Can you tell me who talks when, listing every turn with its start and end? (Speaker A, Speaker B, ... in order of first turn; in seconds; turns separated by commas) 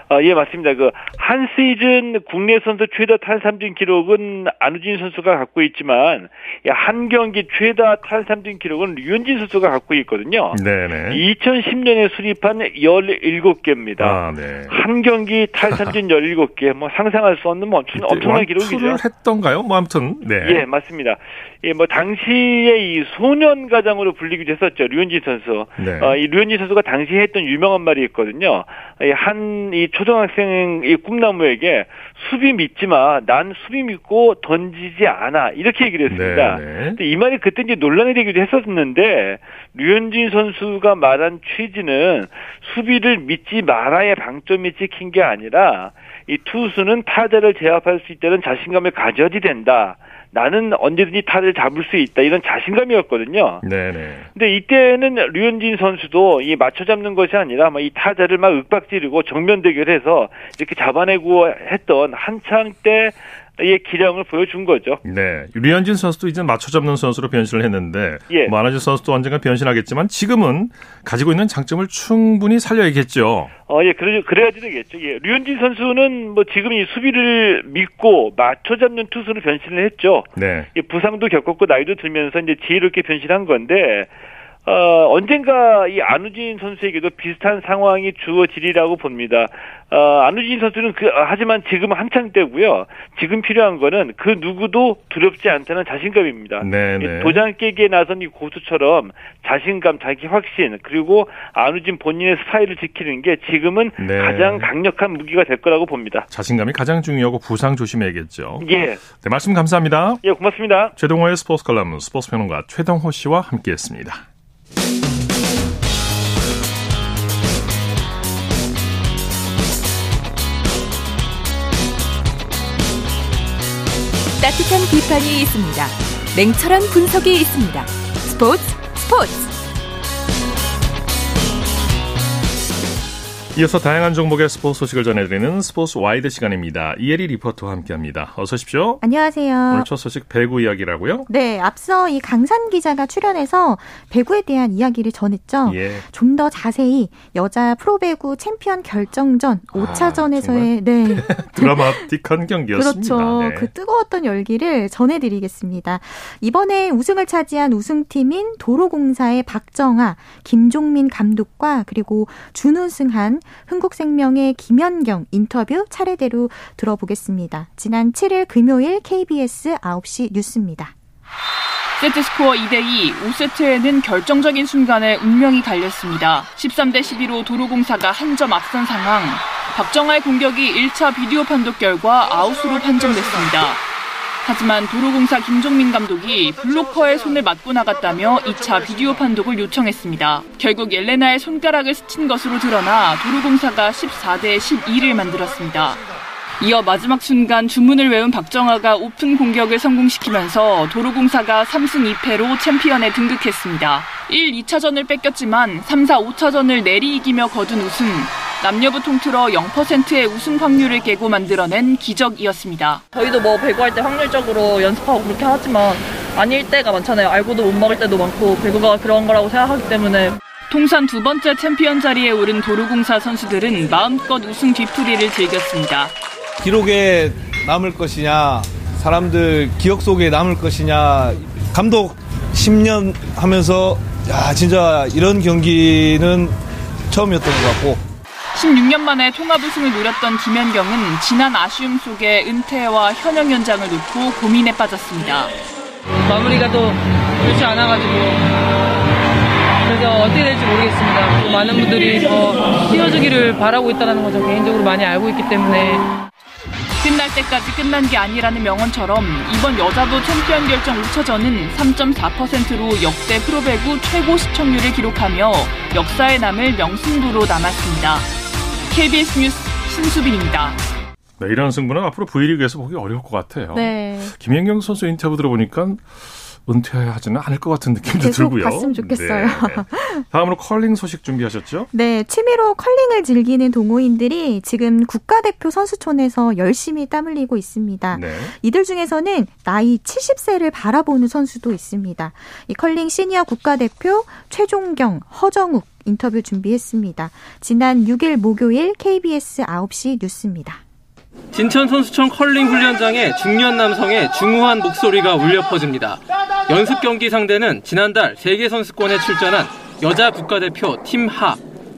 Speaker A: 0.1-19.0, Speaker B: 10.5-11.2, Speaker B: 14.0-14.8, Speaker B: 15.6-16.0, Speaker B: 17.9-20.7, Speaker A: 20.4-53.6, Speaker B: 25.8-26.2, Speaker B: 36.1-37.0, Speaker B: 53.6-54.3, Speaker A: 54.4-65.0, Speaker B: 65.0-73.5, Speaker A: 68.3-68.5, Speaker A: 73.7-84.1, Speaker B: 80.4-80.7, Speaker A: 84.7-106.3, Speaker B: 96.6-97.4, Speaker B: 104.0-104.7, Speaker B: 106.3-110.2, Speaker A: 108.6-109.0, Speaker A: 110.2-110.9, Speaker B: 111.0-114.2, Speaker C: 124.4-129.5, Speaker B: 133.6-139.0, Speaker D: 139.0-139.9, Speaker B: 139.7-141.3, Speaker D: 141.3-152.1, Speaker B: 145.7-146.1, Speaker B: 149.7-153.7, Speaker D: 152.7-170.9, Speaker E: 172.0-183.8, Speaker E: 184.4-196.0, Speaker E: 196.6-213.0, Speaker F: 213.1-220.4, Speaker E: 220.7-226.2, Speaker G: 226.6-236.5, Speaker G: 237.1-238.0, Speaker E: 238.5-245.5, Speaker H: 246.2-248.6, Speaker H: 249.8-256.1, Speaker E: 257.0-268.3, Speaker E: 268.9-270.8, Speaker B: 271.4-281.9, Speaker D: 273.7-274.4, Speaker D: 278.2-280.3, Speaker D: 281.9-300.8, Speaker B: 288.1-288.5, Speaker I: 301.5-311.6